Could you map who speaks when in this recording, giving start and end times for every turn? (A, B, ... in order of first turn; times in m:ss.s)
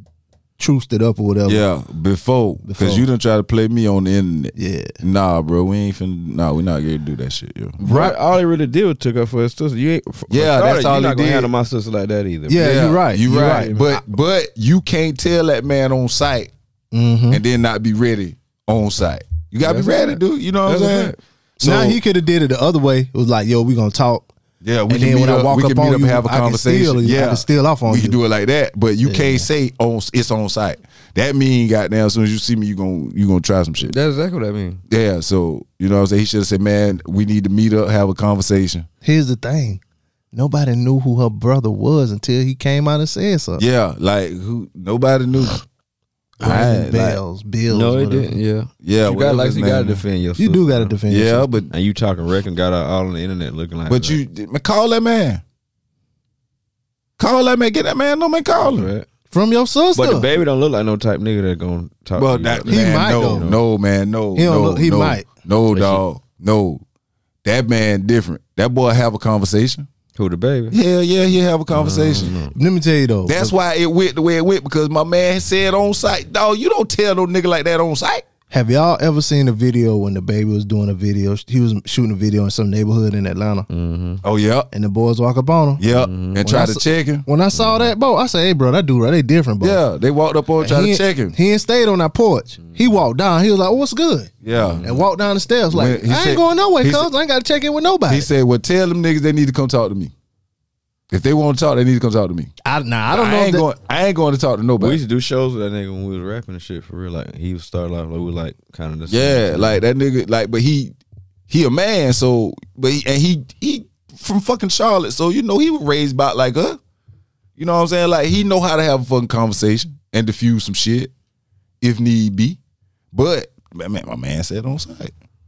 0:00.6-0:01.6 A
0:01.5-0:07.8 B
0:02.6-0:03.1 A
0:04.6-0:04.9 A
0:07.8-0:12.7 C
0:07.8-0:08.2 A
0:10.3-0:11.5 B
0:12.5-0:13.8 A
0:12.5-0:16.5 B
0:13.4-0:13.8 C
0:16.9-0:17.4 A
0:17.3-0:22.0 B
0:19.6-0:21.2 C
0:21.6-0:24.3 A
0:24.6-0:34.0 B
0:24.9-0:28.2 A
0:29.0-0:29.5 A
0:33.8-0:34.8 C
0:34.9-0:38.9 B
0:39.0-0:39.8 A
0:40.3-0:43.6 A
0:43.6-0:45.6 B
0:46.4-0:47.2 B
0:46.4-0:48.4 A
0:47.7-0:51.0 C
0:48.8-0:50.0 B
0:50.4-0:51.5 A
0:51.1-0:51.7 B
0:51.7-0:54.2 C
0:53.9-0:55.4 B
0:57.2-0:58.9 B
0:58.6-0:59.1 C
0:59.3-1:00.3 A
1:00.0-1:03.6 C
1:02.2-1:06.8 B
1:02.7-1:03.4 A
1:04.4-1:05.3 A
1:05.7-1:06.0 C
1:07.4-1:09.9 B
1:10.2-1:10.8 C
1:10.7-1:12.4 B
1:11.7-1:12.6 C
1:12.6-1:13.6 A
1:13.3-1:18.2 B
1:18.5-1:23.7 A
1:23.7-1:24.2 C
1:24.2-1:24.7 B
1:24.7-1:25.8 A
1:25.8-1:27.3 B
1:25.9-1:26.5 C
1:26.4-1:29.8 A
1:27.5-1:27.9 C
1:29.6-1:31.4 B
1:30.6-1:34.3 A
1:34.4-1:34.9 B
1:34.5-1:35.0 C
1:34.8-1:38.3 A
1:35.7-1:37.1 B
1:38.1-1:40.1 B
1:41.1-1:42.5 B
1:42.6-1:43.7 A
1:43.1-1:45.0 B
1:44.8-1:49.8 C
1:49.1-1:51.0 B
1:51.5-1:56.8 B
1:57.6-2:01.1 B
2:01.8-2:02.6 B
2:03.1-2:05.1 B